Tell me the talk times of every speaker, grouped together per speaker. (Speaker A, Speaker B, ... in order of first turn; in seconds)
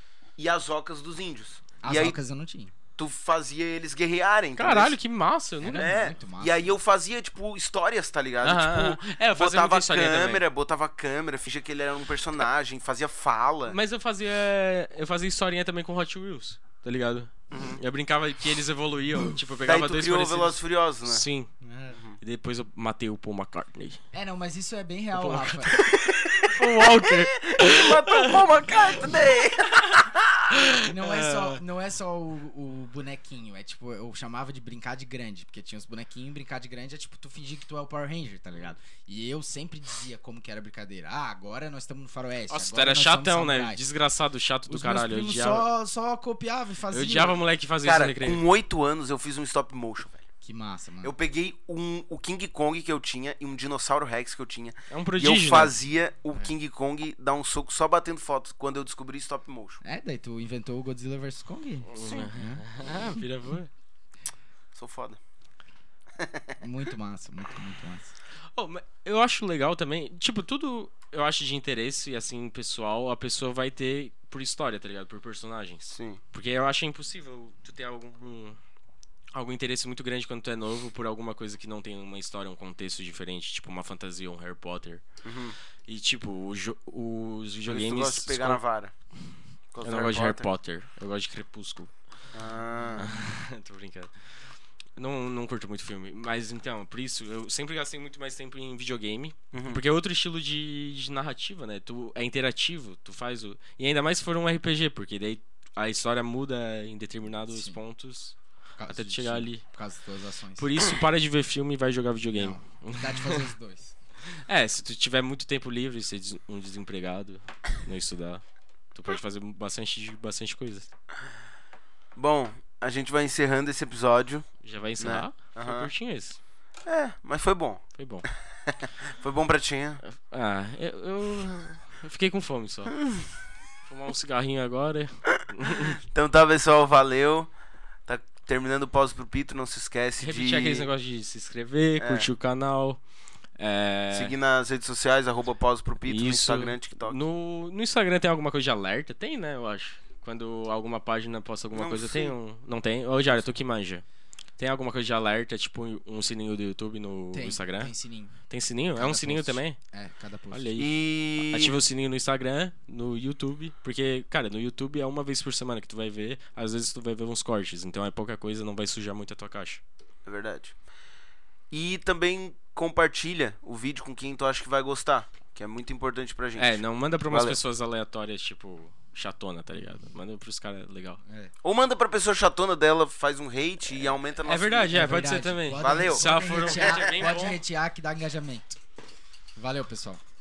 Speaker A: 0.4-2.2, 3.0-5.0, 5.8-13.8, 17.5-17.8, 19.3-21.2, 21.9-22.2, 25.9-30.5, 47.8-50.3, 51.0-59.8, 64.8-65.2, 66.2-66.6, 75.9-76.2, 85.2-85.6, 87.7-88.9, 89.7-90.5, 92.3-93.1, 99.5-99.8, 122.2-125.9, 126.9-127.9, 128.7-130.0, 135.4-137.5, 138.1-140.9, 142.0-142.3, 144.1-147.2, 151.7-152.3, 160.8-161.8, 170.3-170.8, 171.7-177.6, 181.6-185.2, 185.8-187.3
Speaker B: 1.8-2.7, 5.6-6.7, 21.6-22.0, 24.1-25.8, 30.8-43.9, 44.7-47.4, 50.4-51.1, 59.8-62.6, 66.6-68.1, 107.5-107.8, 108.8-110.7, 112.3-113.9, 157.3-158.4, 158.9-160.8, 181.3-181.5, 184.9-188.8, 189.6-190.2
Speaker C: 4.6-5.9, 8.4-10.4, 13.7-20.6, 21.1-21.5, 22.2-24.0, 25.2-25.8, 26.5-28.4, 30.5-31.6, 42.5-45.6, 46.9-48.4, 54.9-55.7, 61.9-63.7, 68.5-78.6, 79.3-85.0, 85.9-88.6, 89.8-91.9, 93.0-94.1, 95.0-108.4, 108.9-109.6, 110.6-113.5, 114.5-120.9, 124.6-126.4, 128.0-128.3, 130.0-132.9, 133.9-136.0, 140.2-143.0, 143.6-144.3, 146.1-154.0, 154.6-157.9, 158.5-159.8, 160.5-169.8, 176.6-181.2, 184.0-187.6